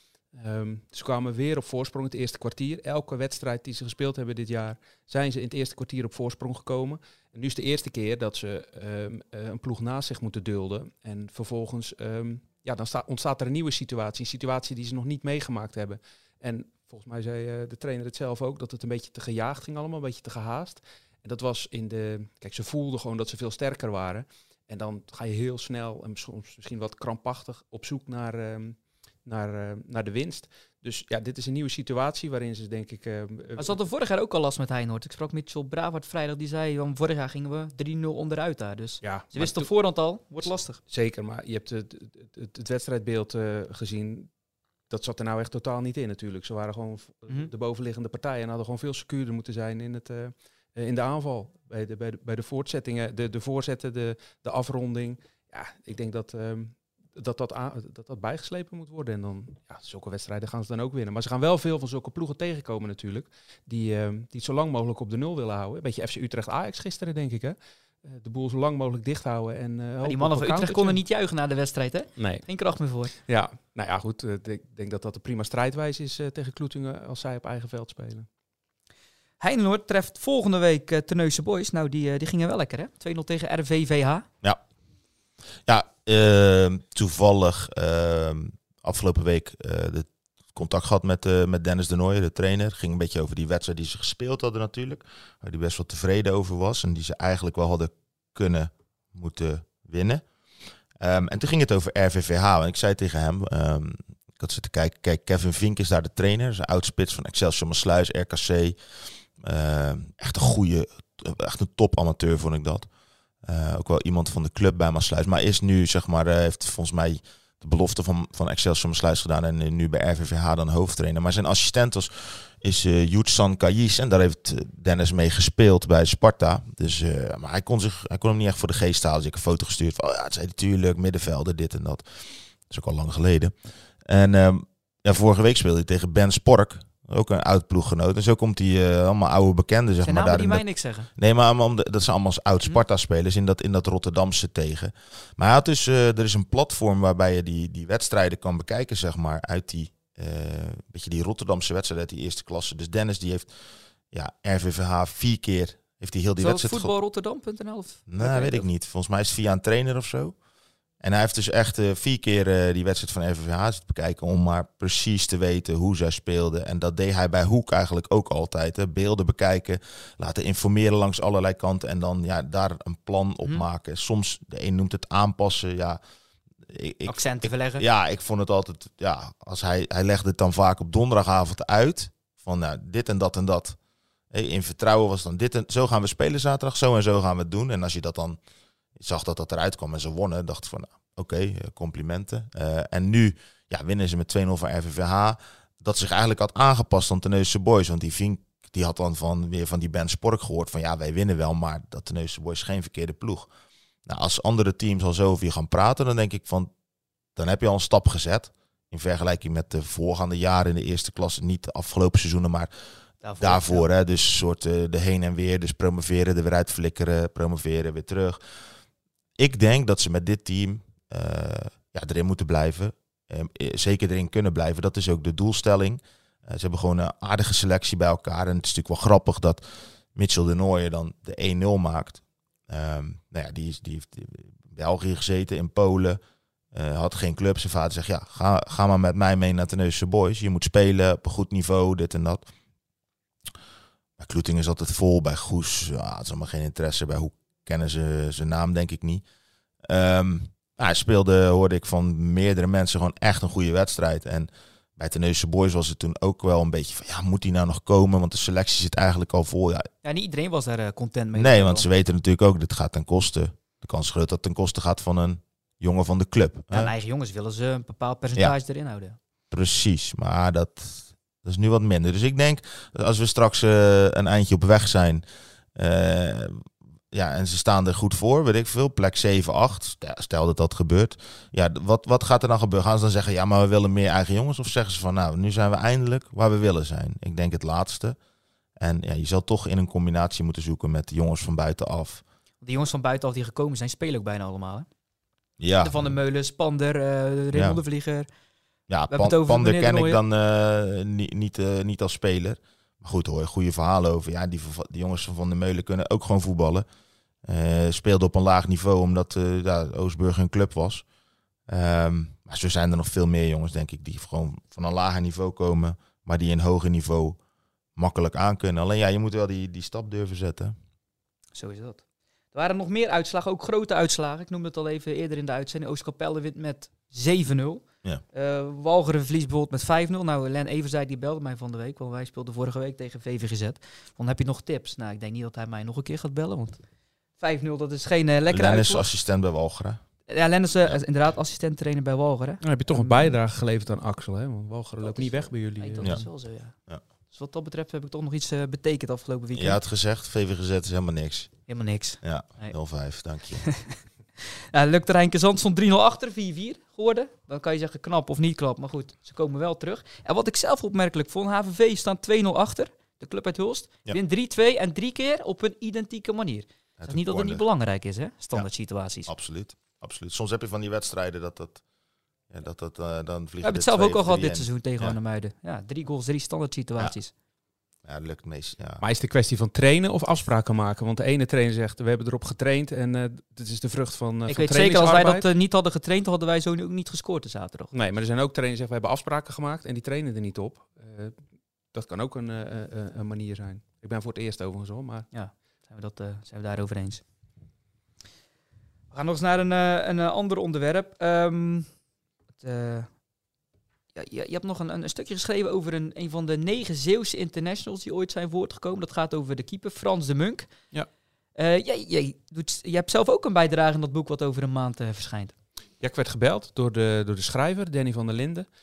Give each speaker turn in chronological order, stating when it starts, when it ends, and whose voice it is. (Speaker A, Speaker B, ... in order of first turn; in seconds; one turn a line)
Speaker A: 0.3-33.8
Speaker B: 33.6-40.8
Speaker A: 39.0-39.7
Speaker A: 40.9-44.3
Speaker A: 44.9-71.0
Speaker B: 70.0-73.1
Speaker A: 72.2-72.4
Speaker A: 73.2-78.3
Speaker B: 79.4-84.3
Speaker C: 85.7-100.2
Speaker C: 101.0-108.8
Speaker C: 109.4-112.9
Speaker C: 113.4-140.6
Speaker B: 140.0-141.1
Speaker C: 141.2-156.9
Speaker B: 156.4-158.7
Speaker C: 158.1-160.3
Speaker C: 161.0-176.0
Speaker C: 176.7-183.8
Speaker B: 177.1-177.8
Speaker C: 184.3-188.4
Speaker C: 189.0-203.5
Speaker C: 204.1-206.7
Speaker C: 207.4-218.4
Speaker B: 213.2-213.8
Speaker C: 219.4-236.2
Speaker C: 236.7-242.5
Speaker C: 244.2-249.2
Speaker C: 249.9-259.9
Speaker B: 260.0-261.9
Speaker C: 261.3-266.9
Speaker B: 266.7-269.2
Speaker C: 269.5-275.2
Speaker C: 275.8-288.2
Speaker C: 288.8-292.2
Speaker B: 292.6-294.9
Speaker C: 295.6-296.2
Speaker B: 295.8-298.3
Speaker C: 297.5-297.8
Speaker C: 298.9-306.9
Speaker B: 299.1-300.2
Speaker C: 307.5-311.1
Speaker C: 311.7-317.4
Speaker C: 318.0-320.8
Speaker B: 321.6-322.0
Speaker B: 322.5-336.8
Speaker B: 337.4-339.1
Speaker C: 338.5-340.0
Speaker B: 340.3-343.4
Speaker A: 342.6-346.2
Speaker B: 345.0-346.8
Speaker B: 347.3-349.8
Speaker C: 349.5-351.6
Speaker B: 351.7-352.8
Speaker C: 352.2-353.7
Speaker B: 353.6-369.3
Speaker C: 367.0-367.6
Speaker C: 369.3-371.8
Speaker C: 372.5-375.2
Speaker B: 373.6-377.3
Speaker C: 378.1-379.0
Speaker A: 379.0-385.4
Speaker B: 384.5-387.9
Speaker A: 387.9-391.4
Speaker A: 391.9-395.3
Speaker B: 395.3-397.2
Speaker B: 399.1-401.9
Speaker B: 402.6-403.1
Speaker B: 404.1-410.7
Speaker B: 411.6-415.5
Speaker A: 416.0-418.7